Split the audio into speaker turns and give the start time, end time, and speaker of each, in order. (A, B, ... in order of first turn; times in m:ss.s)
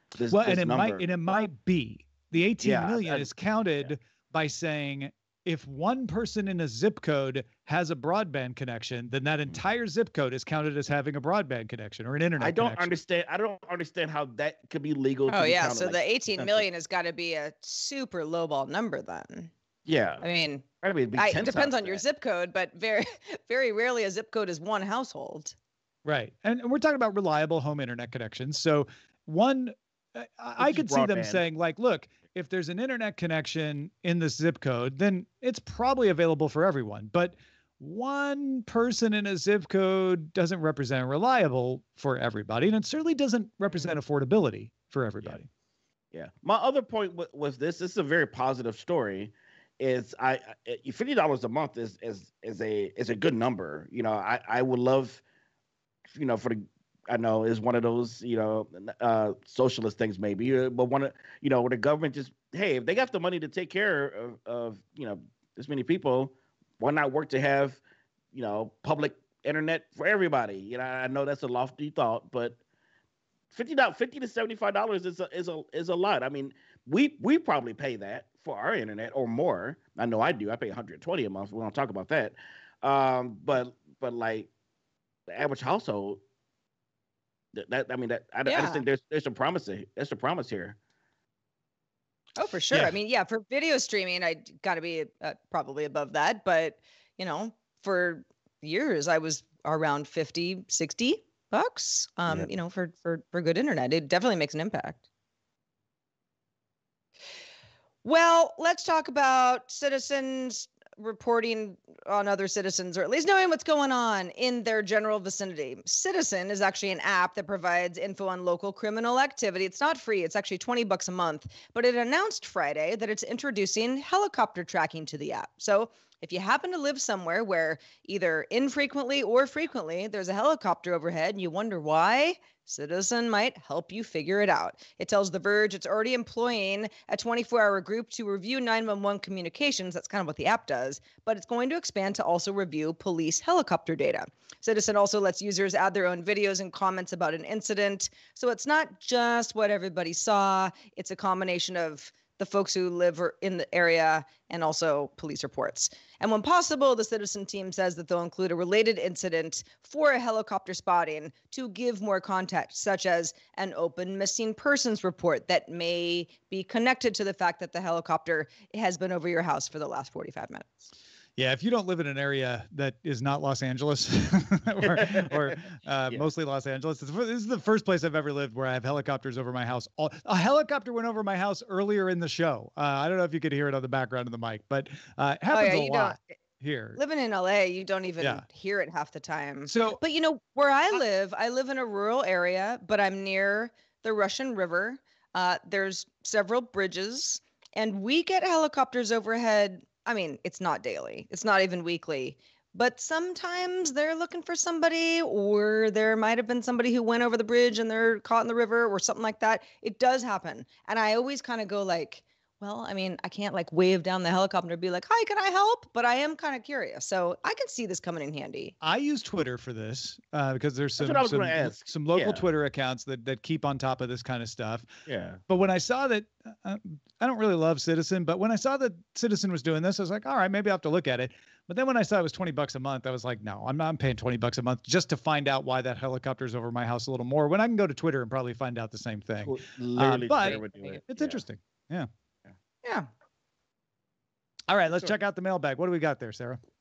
0:00.2-0:01.0 A
0:00.3-0:12.9 B
0:02.6-0:03.3 A
0:12.4-0:16.6 A
0:15.3-0:19.5 C
0:19.8-0:20.2 A
0:20.2-0:25.5 C
0:20.8-0:22.0 A
0:26.0-0:45.5 B
0:30.6-0:31.4 A
0:46.1-0:55.2 A
0:56.1-1:07.8 A
1:08.3-1:12.6 A
1:13.5-1:24.5 A
1:25.3-1:26.2 A
1:27.5-1:30.8 A
1:28.5-1:28.8 C
1:32.4-1:45.0 C
1:48.0-2:50.8 C
2:51.4-3:07.0 B
2:54.8-2:55.5 A
3:05.5-3:06.3 C
3:07.0-3:38.7 C
3:09.7-3:10.0 B
3:38.8-3:44.9 B
3:41.0-3:42.4 A
3:45.0-3:45.4 A
3:45.5-4:02.1 B
3:59.4-4:01.4 A
4:02.8-4:03.1 C
4:04.7-4:06.6 B